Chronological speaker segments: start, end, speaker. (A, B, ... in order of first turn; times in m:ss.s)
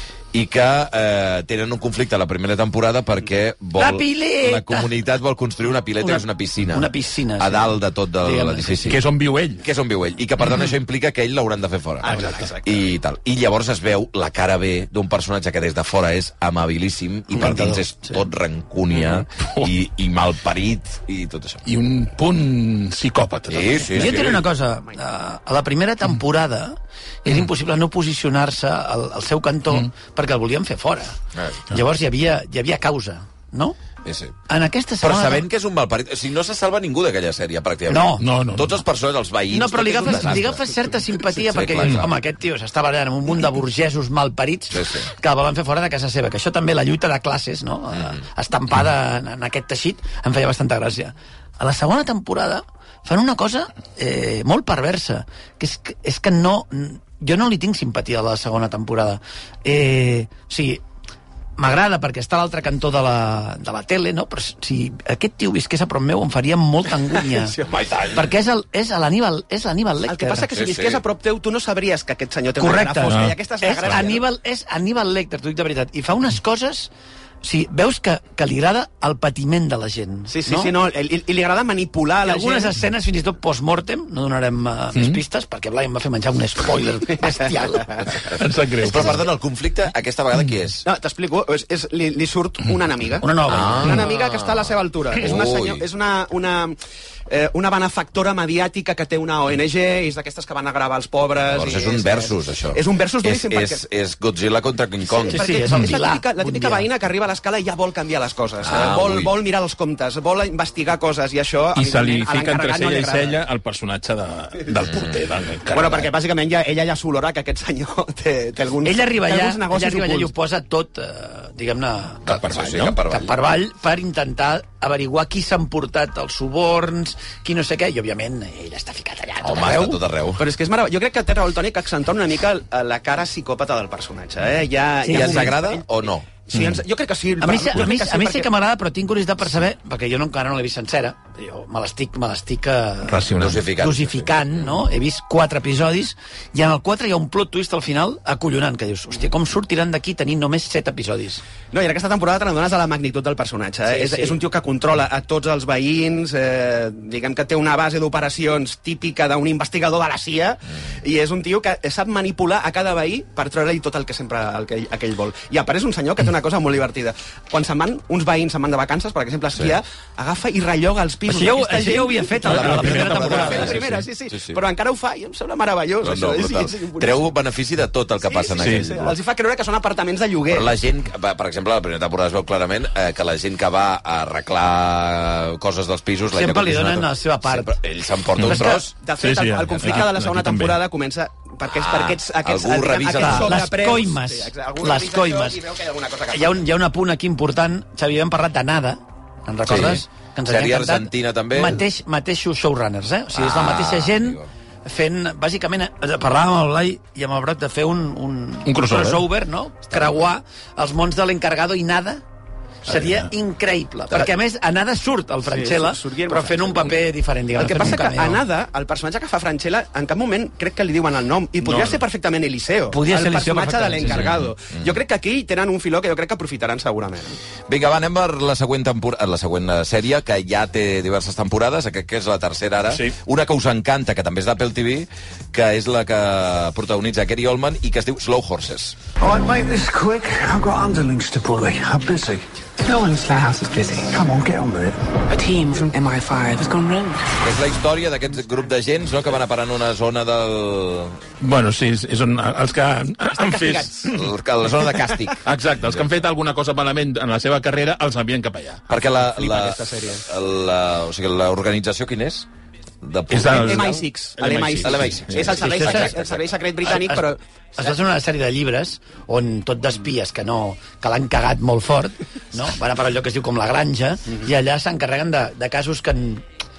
0:00.3-0:09.0 A
0:03.8-0:04.9 B
0:06.0-0:09.0 B
0:08.9-0:09.6 C
0:09.6-0:21.6 A
0:12.0-0:12.9 D
0:12.1-0:12.5 C
0:17.3-0:18.2 B
0:18.9-0:19.7 C
0:21.7-0:24.2 C
0:23.5-0:24.4 A
0:23.9-0:31.2 B
0:31.3-0:31.6 A
0:31.7-0:33.8 B
0:34.0-0:34.4 A
0:34.5-0:35.5 B
0:35.0-0:40.6 A
0:37.9-0:38.3 B
0:38.2-0:38.8 C
0:39.5-1:00.8 B
0:41.2-0:42.1 A
0:44.7-0:45.1 A
1:01.6-1:07.6 B
1:07.7-1:08.2 A
1:08.1-1:10.4 B
1:10.1-1:14.2 D
1:10.5-1:11.0 A
1:12.6-1:16.9 B
1:13.1-1:13.4 C
1:17.4-1:20.7 B
1:20.3-1:22.7 D
1:22.2-1:28.0 B
1:25.0-1:25.2 C
1:27.7-1:28.0 D
1:28.3-1:29.2 C
1:28.8-1:30.9 A
1:30.8-1:36.8 D
1:33.2-1:33.9 B
1:33.5-1:35.8 A
1:37.3-1:43.8 D
1:41.5-1:45.8 A
1:45.1-1:53.4 D
1:45.3-1:46.9 B
1:48.6-1:49.3 A
1:51.8-1:56.1 C
1:54.8-1:55.3 A
1:55.7-2:00.3 D
1:58.8-2:02.2 B
2:02.3-2:03.0 C
2:02.3-2:03.3 A
2:03.1-2:10.0 B
2:09.4-2:10.4 A
2:10.4-2:15.9 D
2:15.0-2:15.5 B
2:15.1-2:16.3 A
2:16.5-2:18.5 D
2:16.5-2:16.8 C
2:17.4-2:23.3 B
2:23.1-2:23.6 C
2:23.4-2:24.4 A
2:23.8-2:31.4 B
2:31.7-2:52.3 D
2:33.9-2:34.4 B
2:51.3-2:53.7 B
2:52.4-2:54.6 A
2:52.4-2:54.0 C
2:52.8-2:57.3 D
2:56.0-2:59.2 A
2:58.3-3:00.8 D
2:58.6-2:58.9 C
3:00.5-3:08.9 A
3:06.3-3:07.8 B
3:08.5-3:08.8 B
3:08.9-3:16.6 D
3:09.2-3:10.8 C
3:11.7-3:13.7 A
3:13.1-3:15.6 B
3:16.3-3:32.2 B
3:19.6-3:21.8 A
3:23.3-3:24.5 A
3:28.7-3:29.3 C
3:29.9-3:30.2 A
3:32.9-3:33.3 C
3:32.9-3:38.4 B
3:35.5-3:37.0 D
3:37.6-3:47.4 D
3:41.6-3:42.0 C
3:42.9-3:44.3 B
3:44.0-3:44.5 C
3:47.7-3:59.0 A
3:52.9-3:53.2 C
3:59.2-4:02.4 E
4:02.8-4:04.2 F
4:04.1-4:05.0 E
4:05.3-4:07.4 F
4:07.4-4:11.2 A
4:11.4-4:14.2 C
4:13.3-4:14.2 D
4:14.1-4:16.2 A
4:15.4-4:18.8 C
4:18.9-4:22.5 A
4:19.2-4:20.2 D
4:23.0-4:24.0 A
4:23.3-4:25.6 C
4:23.4-4:27.9 D
4:24.8-4:26.5 A
4:25.6-4:26.2 B
4:26.9-4:36.4 B